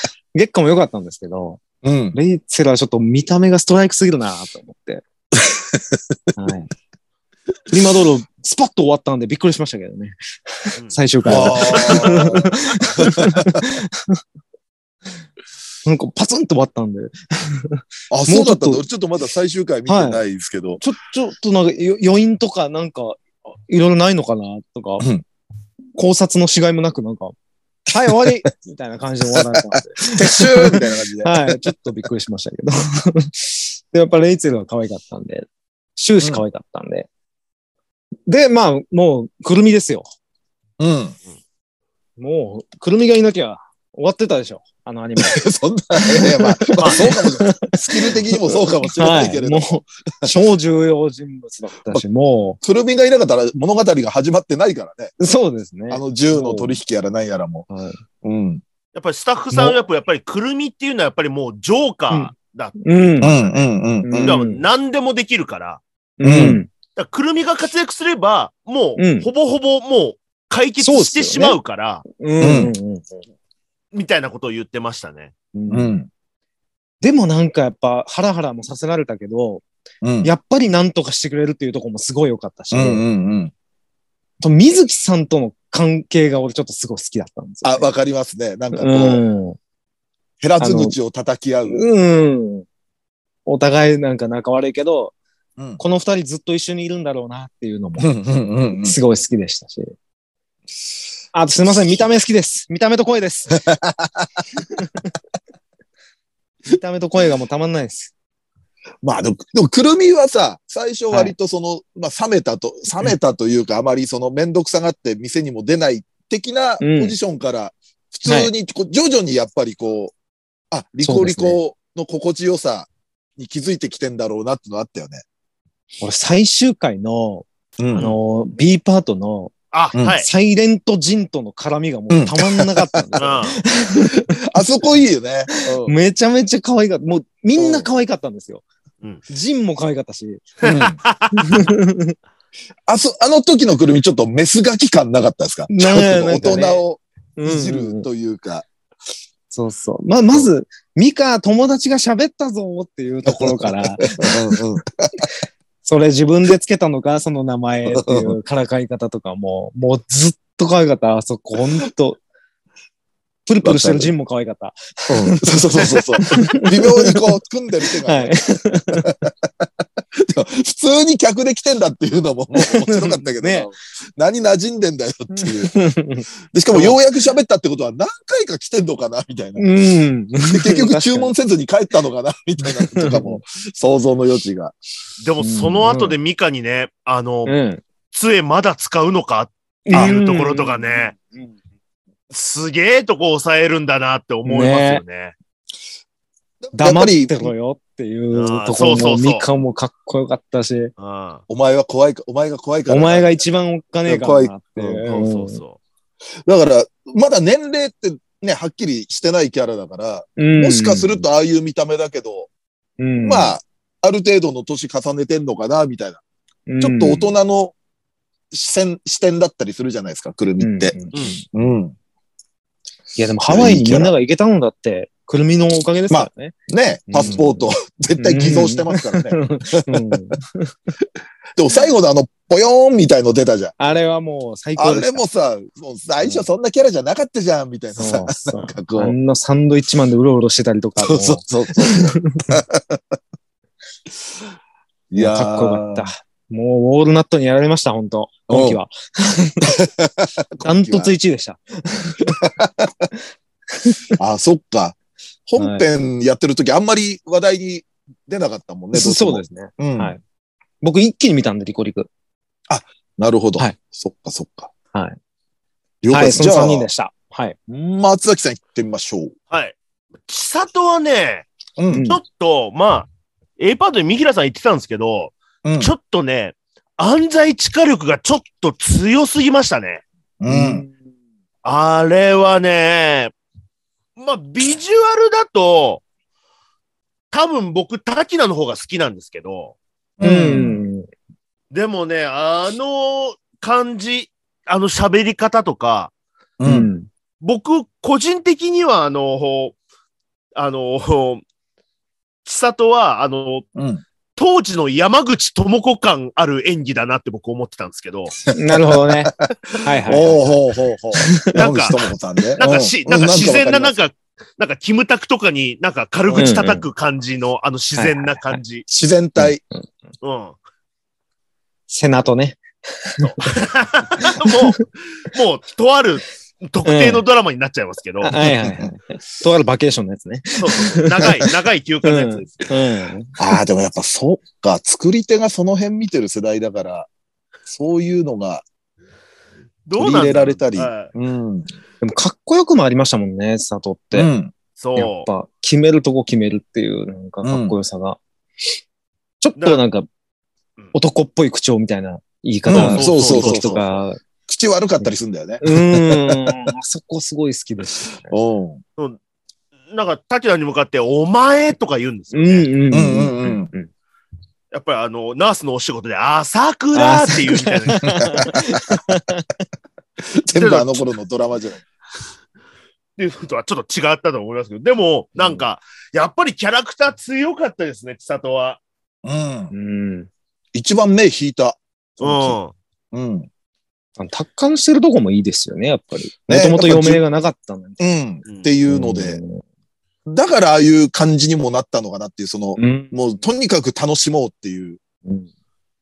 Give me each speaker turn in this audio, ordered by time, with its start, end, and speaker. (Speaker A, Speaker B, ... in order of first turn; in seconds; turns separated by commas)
Speaker A: 0.3-1.6, Speaker B: 1.8-2.1, Speaker A: 2.1-5.0, Speaker B: 5.3-6.2, Speaker A: 6.3-6.7, Speaker A: 7.7-14.2, Speaker C: 10.8-12.4, Speaker B: 11.2-13.7, Speaker A: 15.8-18.8, Speaker B: 18.1-20.8, Speaker A: 19.9-20.2, Speaker A: 20.8-25.1, Speaker A: 25.9-27.3, Speaker A: 27.9-37.1, Speaker B: 28.0-28.3, Speaker B: 29.3-31.7, Speaker A: 38.3-40.1, Speaker B: 40.8-41.1, Speaker A: 42.2-45.4, Speaker B: 45.2-50.3, Speaker A: 46.0-52.6, Speaker C: 46.8-47.1, Speaker B: 52.6-55.1, Speaker A: 55.2-56.8, Speaker B: 55.9-57.6, Speaker A: 57.7-58.0, Speaker B: 58.2-58.6, Speaker C: 58.9-63.6, Speaker A: 62.1-63.3, Speaker B: 63.2-64.4, Speaker A: 64.0-64.6, Speaker C: 64.2-65.8, Speaker A: 66.2-66.7, Speaker B: 66.2-66.6, Speaker C: 67.0-72.0, Speaker A: 69.0-69.3, Speaker A: 70.8-73.2, Speaker B: 72.4-72.7, Speaker C: 73.9-75.3, Speaker A: 75.5-75.9, Speaker B: 75.7-76.1, Speaker A: 77.0-79.6, Speaker B: 80.0-80.3, Speaker A: 80.2-83.0, Speaker B: 82.7-83.5, Speaker A: 84.4-87.9, Speaker B: 87.6-89.2, Speaker A: 88.7-89.6, Speaker B: 90.4-91.8, Speaker A: 90.6-91.0, Speaker A: 91.7-92.7, Speaker A: 93.5-95.1, Speaker A: 95.8-98.1, Speaker B: 98.0-99.0, Speaker A: 98.8-99.9, Speaker A: 101.3-103.6, Speaker B: 103.5-104.4, Speaker A: 104.5-105.1, Speaker A: 106.7-108.1, Speaker B: 109.0-120.1, Speaker A: 116.8-117.2, Speaker A: 118.2-118.5, Speaker B: 120.7-125.2, Speaker A: 121.0-121.6, Speaker A: 126.0-129.5, Speaker B: 127.8-128.1, Speaker C: 129.7-130.3, Speaker A: 130.2-134.6, Speaker B: 132.1-133.4, Speaker C: 133.2-133.6, Speaker B: 134.4-135.9, Speaker A: 135.5-138.6, Speaker B: 137.6-137.9, Speaker A: 139.3-140.6, Speaker B: 140.6-141.0, Speaker C: 140.6-141.6, Speaker A: 141.3-142.1, Speaker B: 142.9-148.7, Speaker A: 145.7-146.8, Speaker A: 147.4-148.1, Speaker A: 149.5-154.3, Speaker B: 153.2-155.3, Speaker A: 155.8-162.2, Speaker B: 157.9-158.3, Speaker A: 163.5-167.2, Speaker B: 163.6-164.1, Speaker B: 165.1-168.4, Speaker A: 168.0-169.1, Speaker B: 169.0-175.7, Speaker A: 172.5-173.7, Speaker A: 175.3-176.9, Speaker B: 176.5-179.7, Speaker A: 179.6-181.3, Speaker B: 180.4-184.7, Speaker A: 182.6-183.4, Speaker C: 185.2-187.6, Speaker A: 185.4-186.2, Speaker A: 187.5-187.8, Speaker C: 188.1-191.2, Speaker A: 189.9-191.5, Speaker C: 192.3-195.3, Speaker A: 194.4-195.0, Speaker B: 196.6-197.5, Speaker A: 196.8-200.9, Speaker C: 198.3-199.4, Speaker C: 201.0-201.4, Speaker B: 201.5-203.4, Speaker A: 202.9-205.6, Speaker B: 204.1-205.0, Speaker C: 205.0-205.8, Speaker B: 206.4-212.5, Speaker A: 210.4-211.2, Speaker A: 213.0-213.6, Speaker B: 213.2-216.2, Speaker A: 216.7-217.3, Speaker B: 216.8-217.7, Speaker B: 218.5-221.9, Speaker A: 220.6-221.4, Speaker C: 221.1-221.4, Speaker A: 223.2-226.5, Speaker B: 223.5-224.1, Speaker B: 226.1-230.2, Speaker A: 227.1-230.7, Speaker B: 231.6-233.7, Speaker A: 233.8-235.2, Speaker B: 234.8-239.2, Speaker A: 238.0-242.4, Speaker B: 241.0-243.2, Speaker B: 245.1-246.1, Speaker A: 245.2-249.7, Speaker B: 248.5-248.8, Speaker B: 249.6-251.1, Speaker A: 250.6-252.5, Speaker B: 252.4-253.1, Speaker A: 253.8-254.0, Speaker B: 254.2-254.9, Speaker B: 255.5-260.1, Speaker A: 255.6-255.8, Speaker A: 258.9-260.2, Speaker A: 260.8-262.1, Speaker B: 262.7-264.7, Speaker B: 266.0-266.9, Speaker A: 266.1-267.6, Speaker B: 267.7-269.3, Speaker C: 269.5-269.7, Speaker C: 270.3-271.5, Speaker B: 271.8-272.1, Speaker A: 271.9-272.2, Speaker C: 272.1-280.0, Speaker B: 275.6-275.9, Speaker B: 280.4-280.9, Speaker A: 280.5-280.9, Speaker C: 281.6-283.3, Speaker C: 284.2-286.0, Speaker C: 287.3-289.7, Speaker B: 290.2-290.8, Speaker A: 290.2-291.1, Speaker C: 291.7-296.1, Speaker B: 296.6-296.9, Speaker A: 296.6-297.1, Speaker C: 297.4-299.7, Speaker C: 300.5-301.4, Speaker C: 302.4-303.6, Speaker B: 303.8-304.0, Speaker C: 304.4-308.4, Speaker A: 308.5-310.5, Speaker B: 308.5-314.0, Speaker A: 311.2-311.6, Speaker C: 311.5-312.0, Speaker C: 312.6-318.9, Speaker B: 316.3-316.5, Speaker A: 316.3-316.9, Speaker A: 318.0-318.6, Speaker B: 318.9-319.6, Speaker A: 319.4-319.9, Speaker C: 320.2-320.6, Speaker A: 321.9-323.4, Speaker C: 323.2-328.4, Speaker A: 324.3-324.8, Speaker A: 326.8-327.2, Speaker A: 328.2-331.5, Speaker B: 328.6-328.9, Speaker C: 330.6-332.7, Speaker A: 332.0-333.4, Speaker B: 333.4-337.1, Speaker B: 337.6-338.6, Speaker C: 339.9-341.1, Speaker B: 339.9-341.7, Speaker A: 342.0-344.3, Speaker B: 344.1-344.5, Speaker C: 344.8-345.3, Speaker A: 344.9-348.2, Speaker B: 347.4-347.8, Speaker A: 349.4-350.1, Speaker C: 349.6-349.8, Speaker A: 350.9-354.2, Speaker B: 352.6-353.9, Speaker C: 352.7-353.8, Speaker B: 354.5-356.6, Speaker A: 355.0-358.3, Speaker B: 358.3-358.8, Speaker C: 359.9-362.7, Speaker A: 362.3-363.9, Speaker B: 362.9-363.7, Speaker C: 364.7-368.4, Speaker A: 366.9-369.5, Speaker B: 368.0-369.0, Speaker B: 370.3-371.8, Speaker C: 370.5-371.1, Speaker C: 373.2-378.8, Speaker A: 375.4-375.6, Speaker B: 379.2-379.7, Speaker A: 379.7-380.3, Speaker B: 380.7-382.6, Speaker C: 382.2-382.7, Speaker B: 383.1-383.5, Speaker A: 384.2-388.0, Speaker B: 386.5-387.2, Speaker B: 388.0-389.4, Speaker C: 388.4-388.7, Speaker A: 388.9-389.6, Speaker B: 390.3-395.0, Speaker A: 392.8-393.1